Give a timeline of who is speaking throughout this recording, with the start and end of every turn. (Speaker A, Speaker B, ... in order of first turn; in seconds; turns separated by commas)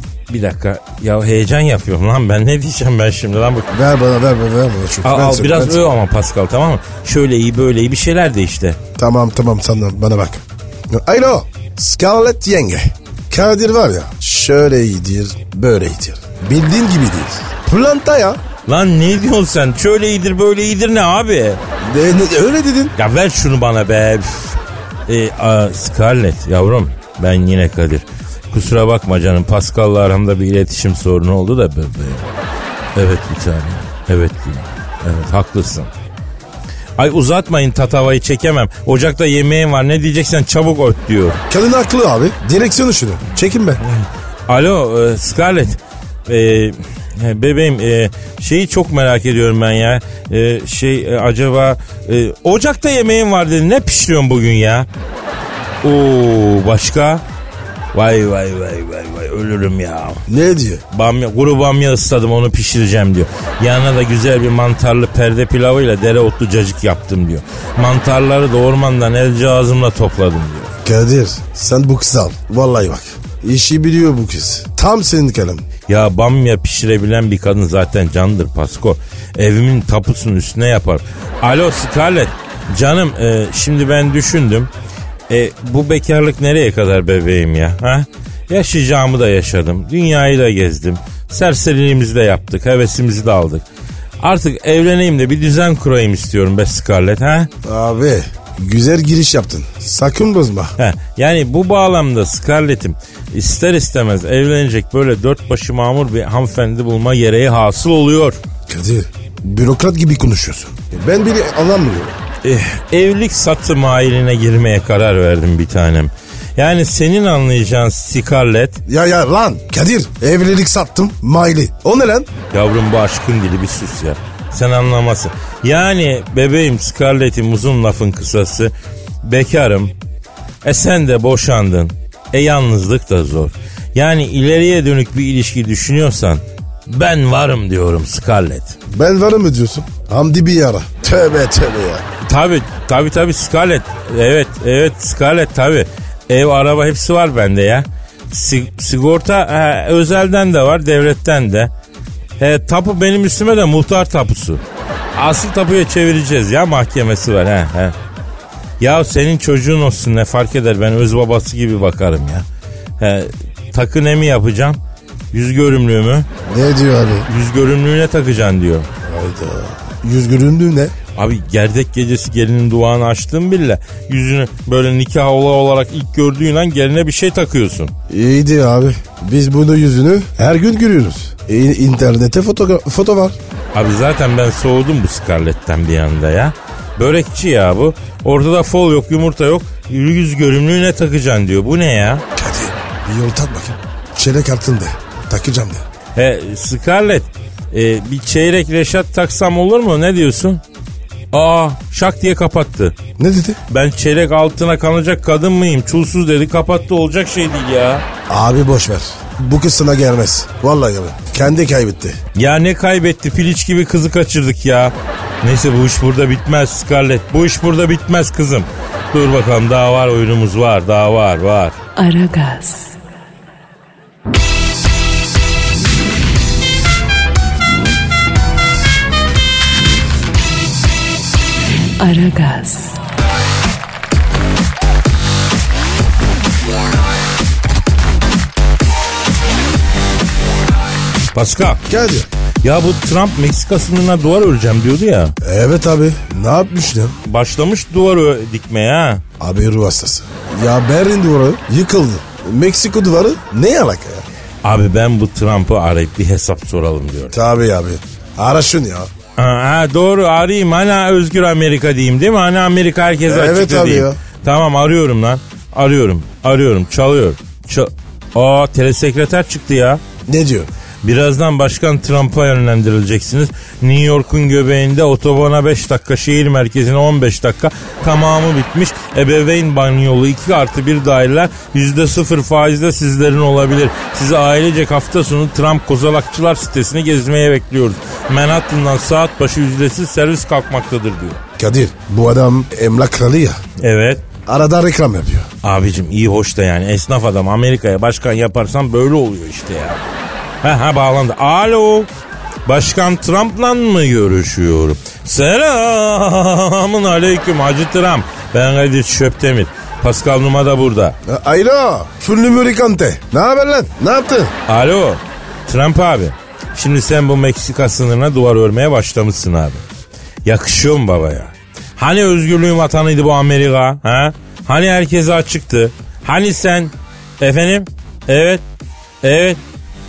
Speaker A: 0.3-3.7, Speaker B: 3.7-5.8, Speaker A: 5.0-8.8, Speaker B: 9.0-18.4, Speaker A: 18.7-21.6, Speaker B: 21.8-22.9, Speaker A: 23.0-32.2, Speaker A: 33.0-35.9, Speaker A: 37.0-41.4, Speaker B: 41.5-43.8, Speaker A: 43.8-54.9, Speaker A: 55.8-57.2, Speaker A: 57.9-60.2, Speaker B: 60.3-60.8, Speaker A: 60.9-70.7, Speaker B: 70.8-75.7, Speaker A: 75.9-84.7, Speaker A: 85.3-93.7, Speaker A: 94.2-97.5, Speaker B: 97.6-100.8, Speaker A: 100.8-108.4, Speaker B: 108.7-112.2, Speaker A: 112.4-118.8, Speaker B: 118.9-122.3, Speaker A: 122.5-128.7, Speaker A: 129.2-129.9, Speaker A: 130.6-138.8, Speaker B: 138.9-142.1, Speaker A: 142.3-151.7, Speaker A: 152.4-154.6, Speaker A: 155.2-157.9, Speaker A: 158.8-162.5, Speaker A: 163.0-164.8, Speaker A: 165.3-166.3, Speaker B: 166.5-167.3, Speaker A: 167.3-168.9, Speaker B: 169.1-170.9, Speaker A: 171.2-177.9, Speaker B: 178.1-183.4, Speaker A: 183.7-192.2, Speaker B: 192.4-195.8, Speaker A: 196.2-200.6, Speaker A: 201.3-202.9, Speaker B: 203.2-203.6, Speaker A: 203.7-208.1, Speaker B: 208.3-212.2, Speaker A: 212.4-221.8, Speaker C: 222.0-223.0, Speaker C: 232.0-233.0, Speaker A: 241.3-241.8, Speaker B: 241.9-242.3, Speaker A: 242.6-245.3, Speaker B: 245.4-247.2, Speaker A: 247.2-249.2, Speaker B: 249.4-254.3, Speaker A: 254.6-257.4, Speaker B: 257.3-259.1, Speaker A: 259.4-270.0, Speaker B: 263.3-264.2, Speaker B: 270.3-270.7, Speaker A: 271.0-291.4, Speaker B: 291.6-293.6, Speaker A: 293.8-294.2, Speaker B: 294.5-295.5, Speaker A: 295.6-300.0, Speaker A: 300.6-302.1, Speaker A: 302.7-311.2, Speaker B: 311.2-314.5, Speaker A: 314.7-319.8, Speaker A: 320.4-328.6, Speaker A: 329.2-329.6